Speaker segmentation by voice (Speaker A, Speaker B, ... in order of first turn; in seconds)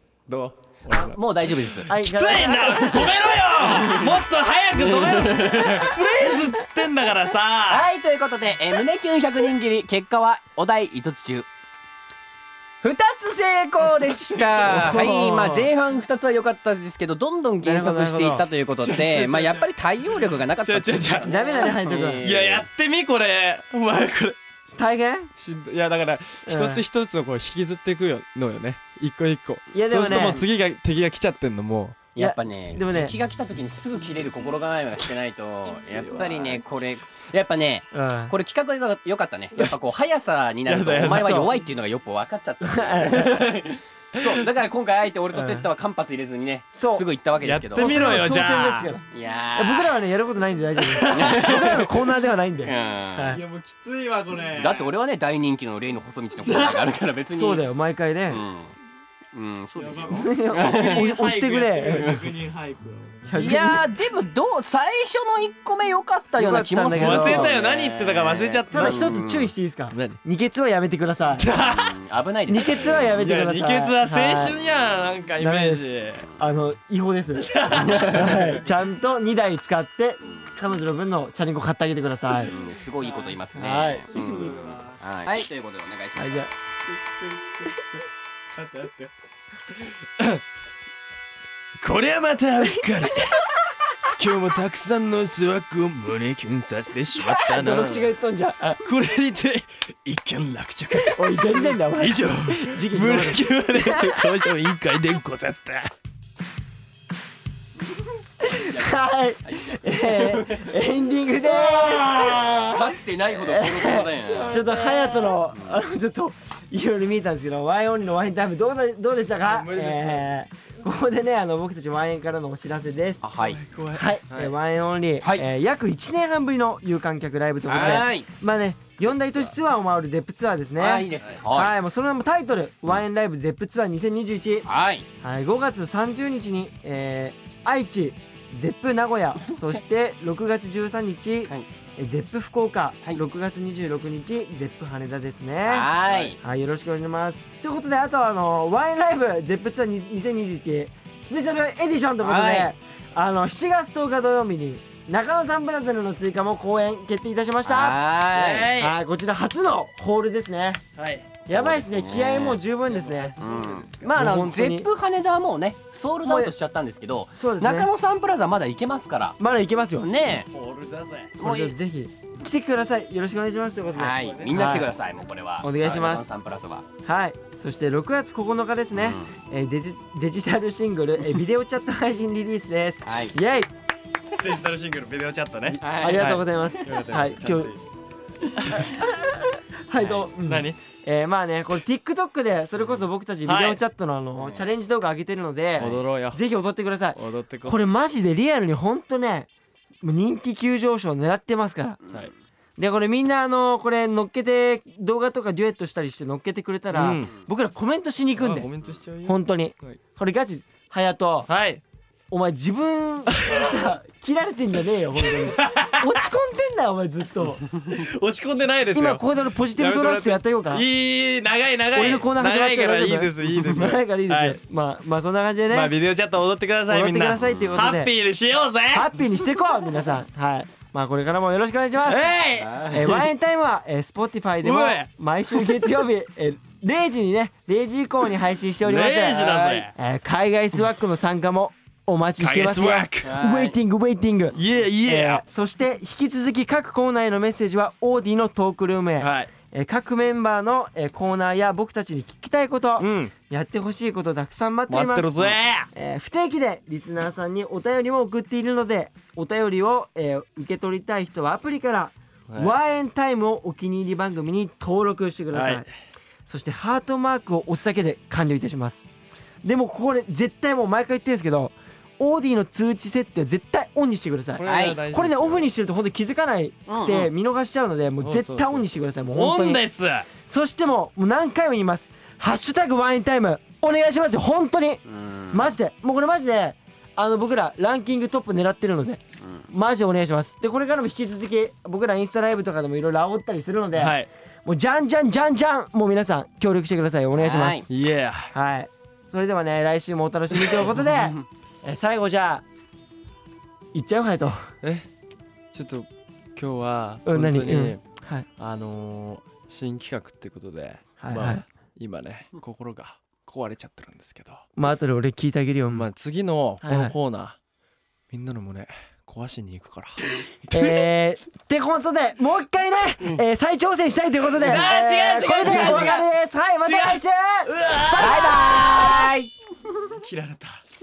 Speaker A: 0.3-7.9, 14.3-15.7, 18.8-19.7, 20.6-21.3, 22.2-32.0, 40.6-41.5, 44.2-44.4, 47.4-48.9, 50.8-51.8, 53.3-54.9, 56.4-56.9, 59.8-63.2, 66.9-69.2, 69.9-70.2, 71.4-72.0, 73.2-76.3, 77.4-78.8, 83.0-83.4, 84.1-85.0, 86.9-87.8, 88.5-89.1, 89.7-90.4, 91.8-93.5, 94.1-98.1, 98.8-105.9, 111.5-112.7, 114.2-115.4, 119.4-120.3, 123.4-124.5, 146.1-146.3, 158.3-159.0, 161.0-161.4, 162.8-164.2, 170.5-171.4, 174.1-174.9, 184.4-187.8, 188.5-188.9, 190.4-190.8, 193.4-193.8, 195.8-196.4, 197.2-197.8, 206.9-207.3, 208.4-210.0, 211.5-211.8, 213.3-213.9, 215.2-216.3, 217.7-224.6, 225.7-229.2, 232.1-233.3, 234.6-236.0, 238.8-239.9, 242.4-243.7, 244.5-245.4, 249.2-249.5, 253.0-253.3, 254.9-255.9, 262.5-262.7, 265.5-265.9, 274.6-275.7, 278.2-280.3, 293.9-294.3, 297.9-298.5, 300.6-300.9, 304.8-305.1, 305.7-308.0, 308.6-314.6, 315.9-317.6, 318.3-320.2, 320.7-321.0, 324.5-326.2, 326.8-329.3, 330.1-330.8
Speaker B: 0.8-1.9, 3.6-4.1, 4.8-6.0, 7.7-11.5, 12.8-22.7, 32.1-48.1, 49.1-50.0, 51.1-52.0, 52.6-53.4, 54.5-57.6, 58.3-58.7, 59.3-61.1, 63.3-69.5, 71.5-73.2, 77.7-78.3, 82.4-86.4, 108.5-110.7, 111.7-112.0, 112.7-114.6, 115.5-115.8, 123.2-123.6, 125.2-125.5, 127.7-128.3, 130.8-131.7, 134.7-135.1, 145.6-146.4, 152.2-152.7, 157.6-158.8, 161.5-162.6, 163.4-169.4, 170.0-170.5, 171.4-171.8, 173.9-176.8, 178.9-179.3, 183.0-183.3, 185.8-186.4, 190.0-190.2, 194.4-194.7, 195.8-196.0, 202.0-202.3, 227.4-227.9, 232.6-233.1, 243.2-243.7, 274.6-275.0, 276.9-277.3, 285.1-285.7, 297.4-297.8, 301.1-301.4, 324.6-326.2, 328.1-329.5
Speaker C: 1.9-3.1, 14.7-15.1, 17.6-18.4, 21.2-22.2, 24.8-25.3, 26.4-26.8, 29.7-30.4, 32.2-33.1, 36.1-36.5, 37.9-38.3, 41.0-41.5, 42.6-43.6, 45.3-45.6, 46.7-47.0, 47.7-49.0, 49.5-53.4, 57.3-58.4, 60.1-62.2, 63.2-63.9, 66.3-67.5, 68.7-71.5, 72.5-74.5, 75.4-82.5, 83.6-84.7, 86.2-86.5, 97.2-98.8, 101.0-104.2, 108.4-123.2, 123.9-134.7, 135.2-145.9, 146.4-158.0, 158.8-160.8, 161.4-163.4, 164.1-164.9, 166.3-166.5, 167.4-167.9, 169.4-170.1, 171.4-174.9, 175.6-176.2, 177.0-183.7, 185.7-187.7, 188.7-199.5, 200.0-202.0, 202.8-208.7, 209.2-211.5, 212.3-217.7, 218.9-220.8, 221.9-225.9, 226.9-228.1, 228.9-232.3, 232.9-265.9, 266.5-269.1, 269.6-279.8, 280.5-297.9, 298.5-302.6, 303.9-304.7, 307.2-308.4, 311.2-311.6, 314.8-316.1, 316.8-317.1, 320.7-329.1